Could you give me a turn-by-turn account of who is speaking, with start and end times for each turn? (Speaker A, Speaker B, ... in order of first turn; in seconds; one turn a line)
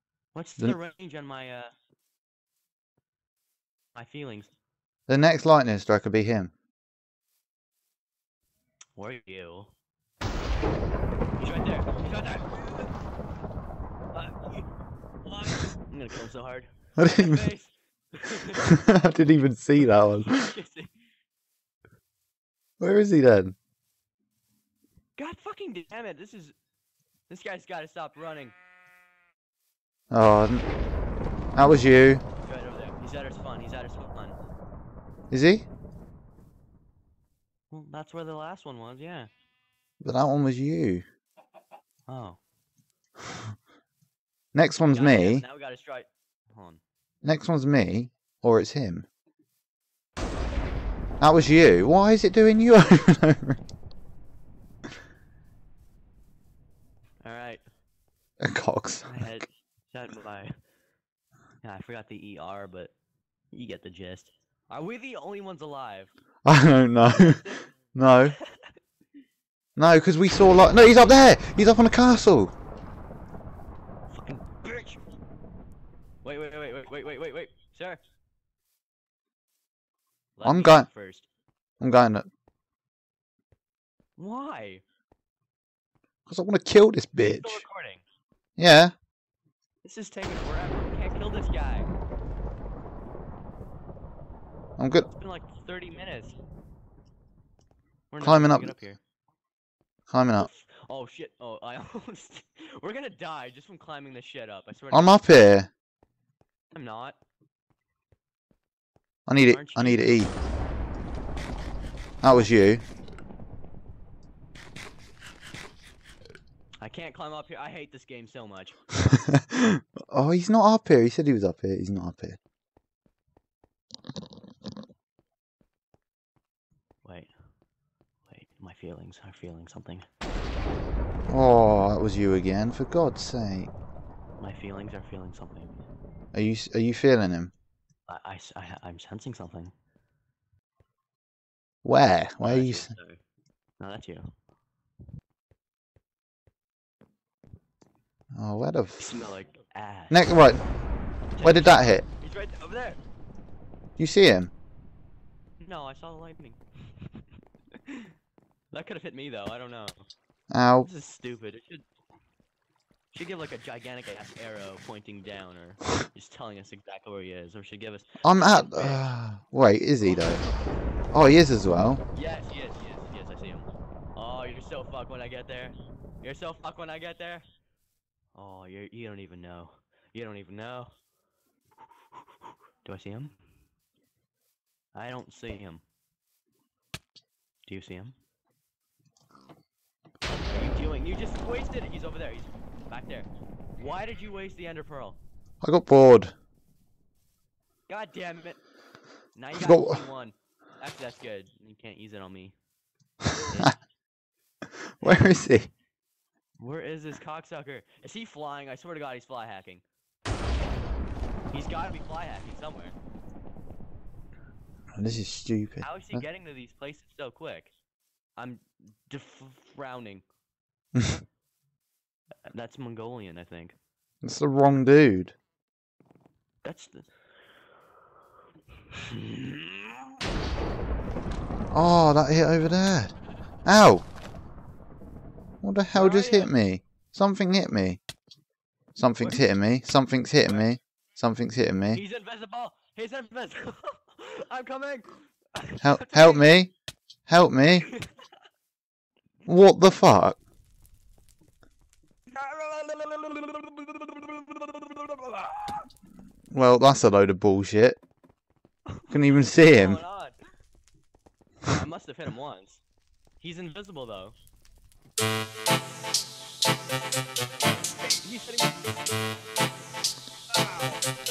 Speaker A: 0.3-1.7
Speaker A: 3.9-4.5
Speaker B: 5.1-6.5
Speaker A: 9.0-9.7
Speaker A: 11.4-12.9
Speaker A: 14.1-14.7
Speaker A: 15.2-18.9
Speaker B: 17.0-17.4
Speaker B: 18.6-20.5
Speaker A: 20.2-20.9
Speaker B: 22.8-23.5
Speaker A: 25.2-26.5
Speaker A: 27.3-28.5
Speaker B: 30.1-30.6
Speaker B: 31.5-32.2
Speaker A: 32.4-34.4
Speaker B: 35.3-35.7
Speaker A: 37.7-39.3
Speaker B: 40.0-41.0
Speaker A: 42.1-42.4
Speaker B: 44.5-45.4
Speaker A: 44.9-46.8
Speaker B: 47.2-49.0
Speaker B: 51.2-53.6
Speaker A: 57.2-57.6
Speaker B: 58.4-59.2
Speaker A: 59.0-60.5
Speaker A: 61.6-62.9
Speaker A: 63.5-66.1
Speaker B: 66.4-68.3
Speaker A: 67.2-67.7
Speaker A: 68.3-68.7
Speaker B: 69.8-72.5
Speaker A: 74.1-75.0
Speaker A: 76.2-78.0
Speaker A: 80.4-81.3
Speaker B: 80.4-80.9
Speaker B: 81.8-82.3
Speaker A: 84.2-84.8
Speaker B: 86.3-87.6
Speaker A: 87.2-88.0
Speaker B: 88.6-88.9
Speaker A: 89.8-91.9
Speaker B: 94.8-95.0
Speaker A: 95.0-96.3
Speaker A: 98.1-99.0
Speaker B: 98.2-98.7
Speaker B: 100.1-100.5
Speaker A: 100.4-105.2
Speaker B: 104.9-105.7
Speaker A: 106.7-107.2
Speaker B: 109.3-110.3
Speaker A: 109.4-110.3
Speaker B: 112.2-112.8
Speaker A: 116.8-118.8
Speaker B: 119.0-122.4
Speaker A: 127.0-127.3
Speaker A: 128.3-130.1
Speaker B: 131.3-133.7
Speaker A: 134.4-135.8
Speaker B: 136.3-137.5
Speaker A: 138.1-139.7
Speaker B: 141.8-142.9
Speaker A: 142.4-143.2
Speaker A: 143.8-144.3
Speaker B: 148.3-149.1
Speaker A: 149.0-150.2
Speaker B: 150.1-150.6
Speaker A: 151.4-153.0
Speaker B: 151.4-152.0
Speaker B: 154.0-154.5
Speaker A: 155.6-157.2
Speaker A: 157.8-158.1
Speaker A: 158.7-160.0
Speaker B: 160.5-160.9
Speaker A: 160.8-161.8
Speaker A: 163.1-169.1
Speaker B: 168.2-170.4
Speaker A: 170.0-170.8
Speaker B: 171.1-172.0
Speaker A: 172.1-177.4
Speaker A: 178.3-180.9
Speaker A: 182.1-183.3
Speaker A: 184.9-185.8
Speaker A: 187.7-188.2
Speaker A: 190.5-195.2
Speaker B: 195.6-196.3
Speaker A: 197.9-198.6
Speaker A: 199.3-202.5
Speaker B: 199.6-200.0
Speaker B: 203.3-203.7
Speaker A: 203.4-203.8
Speaker B: 205.0-205.7
Speaker A: 205.0-205.3
Speaker A: 206.6-209.8
Speaker A: 211.5-212.9
Speaker B: 214.9-216.2
Speaker A: 215.8-217.7
Speaker A: 218.4-220.2
Speaker A: 222.5-223.7
Speaker B: 224.2-225.3
Speaker A: 226.6-227.1
Speaker A: 228.9-230.2
Speaker B: 231.7-233.1
Speaker B: 233.6-234.0
Speaker B: 235.6-238.0
Speaker A: 235.9-236.5
Speaker B: 238.9-242.0
Speaker A: 239.2-239.4
Speaker A: 241.9-246.4
Speaker B: 245.8-246.7
Speaker B: 247.3-247.9
Speaker A: 247.8-248.3
Speaker B: 249.4-250.4
Speaker A: 252.3-255.8
Speaker B: 256.5-258.0
Speaker A: 258.9-260.3
Speaker B: 259.1-260.0
Speaker A: 261.6-262.8
Speaker A: 263.4-264.3
Speaker A: 268.0-269.0
Speaker A: 270.6-271.0